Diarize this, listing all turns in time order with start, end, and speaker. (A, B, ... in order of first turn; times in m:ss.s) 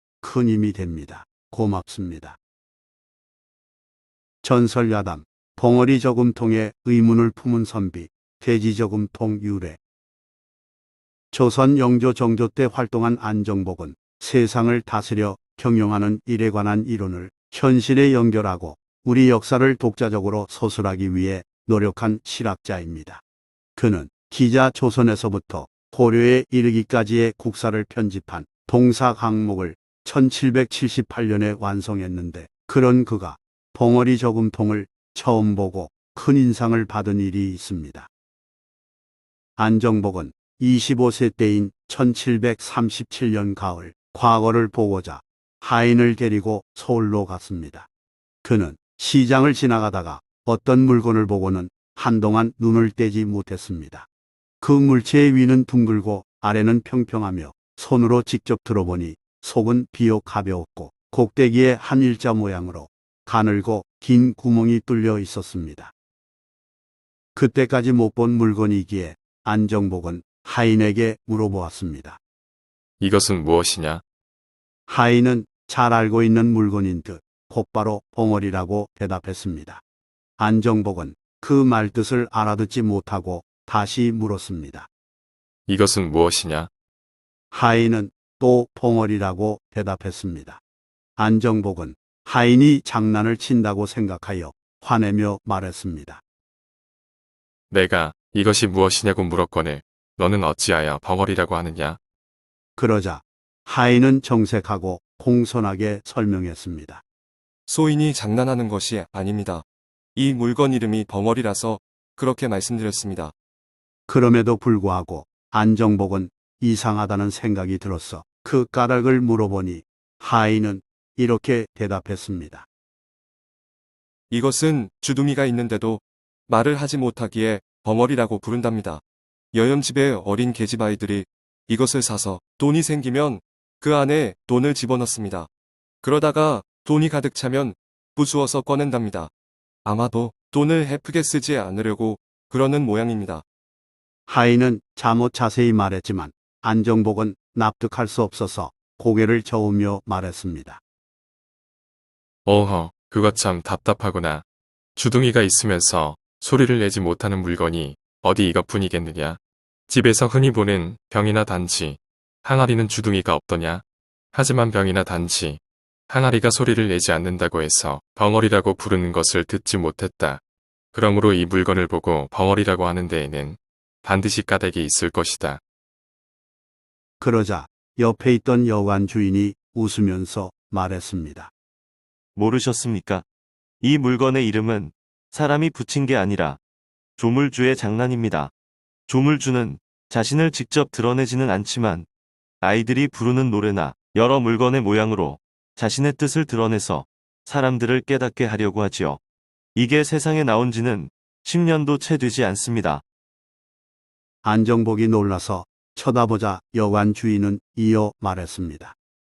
0:00.2-0:02.4 A
0:04.4-0:09.8 A
0:11.3-0:23.2 A
0:23.8-0:38.1 A
0:39.6-0:47.9 A
0:48.4-0:54.1 A
0:54.6-1:05.9 A
1:07.3-1:12.2 A
1:13.0-1:14.0 B
1:14.9-1:19.8 A
1:20.4-1:24.9 A
1:25.7-1:26.7 B
1:27.5-1:30.6 A
1:31.2-1:36.2 A
1:37.7-1:42.0 B
1:42.8-1:47.0 A
1:47.7-1:53.3 C
1:54.1-2:02.7 A
2:04.3-2:15.5 C
2:16.0-2:19.3 C
2:19.8-2:23.4 C
2:24.3-2:30.8 A
2:32.4-2:50.4 B
2:50.9-2:55.6 B
2:57.2-3:01.5 A
3:02.4-3:03.2 D
3:03.8-3:06.6 D
3:07.2-3:08.5 D
3:09.1-3:12.1 D
3:12.6-3:19.2 D
3:19.7-3:23.0 D
3:24.4-3:28.9 A